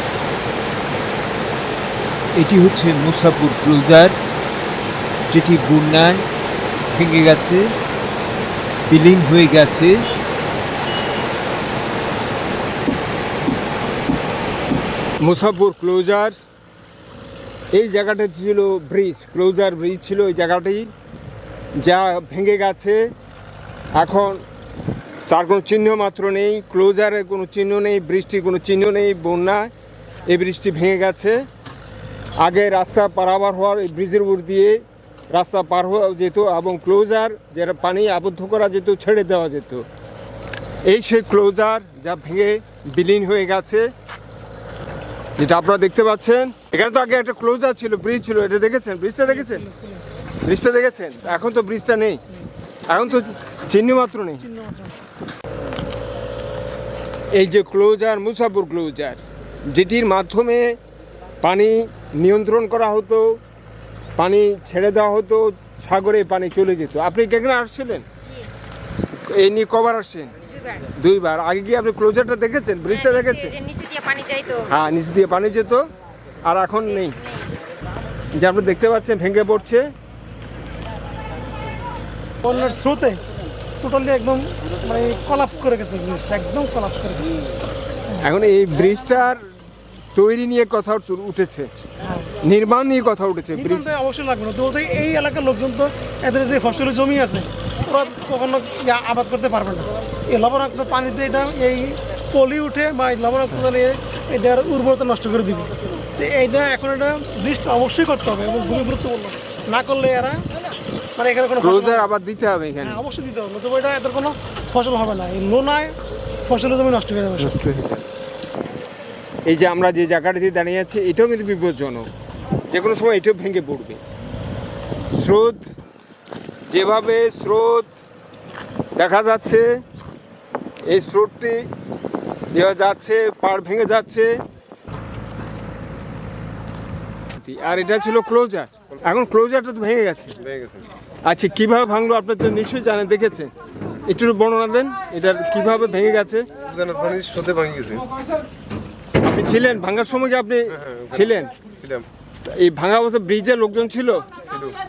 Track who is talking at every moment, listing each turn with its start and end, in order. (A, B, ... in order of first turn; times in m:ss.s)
0:02.4-0:04.1 A
0:05.3-0:06.2 A
0:06.9-0:07.6 A
0:08.9-0:09.9 A
0:15.2-0:16.4 B
0:17.7-0:20.9 B
0:21.8-0:23.0 B
0:23.9-0:24.4 B
0:25.3-0:29.7 B
0:30.3-0:31.4 B
0:32.4-0:34.8 B
0:35.3-0:39.8 B
0:40.8-0:43.9 B
0:45.4-0:49.6 B
0:49.2-0:50.0 C
0:50.4-0:52.2 B
0:52.9-0:54.4 B
0:54.5-0:54.9 C
0:57.3-1:00.8 B
1:01.4-1:03.4 B
1:04.2-1:08.0 B
1:09.3-1:10.3 B
1:10.5-1:10.9 D
1:11.0-1:13.5 B
1:12.9-1:14.6 D
1:14.7-1:15.8 B
1:16.4-1:17.2 B
1:16.9-1:17.5 D
1:18.4-1:19.9 B
1:22.4-1:23.2 C
1:23.8-1:27.4 C
1:28.2-1:29.4 B
1:30.1-1:31.7 B
1:32.0-1:32.3 C
1:32.4-1:33.9 B
1:33.5-1:50.4 C
1:51.2-1:52.0 C
1:51.6-1:53.0 B
1:52.8-1:56.0 C
1:56.5-1:57.6 C
1:57.4-1:58.0 B
1:59.4-2:02.1 B
2:02.7-2:04.0 B
2:05.1-2:05.7 B
2:06.7-2:07.9 B
2:09.0-2:09.6 B
2:10.8-2:11.6 B
2:12.5-2:14.3 B
2:17.4-2:20.3 B
2:20.4-2:20.8 E
2:21.2-2:23.5 B
2:24.1-2:26.4 B
2:26.6-2:28.0 E
2:29.2-2:31.5 B
2:30.8-2:32.0 E
2:32.4-2:34.2 B
2:34.5-2:34.7 E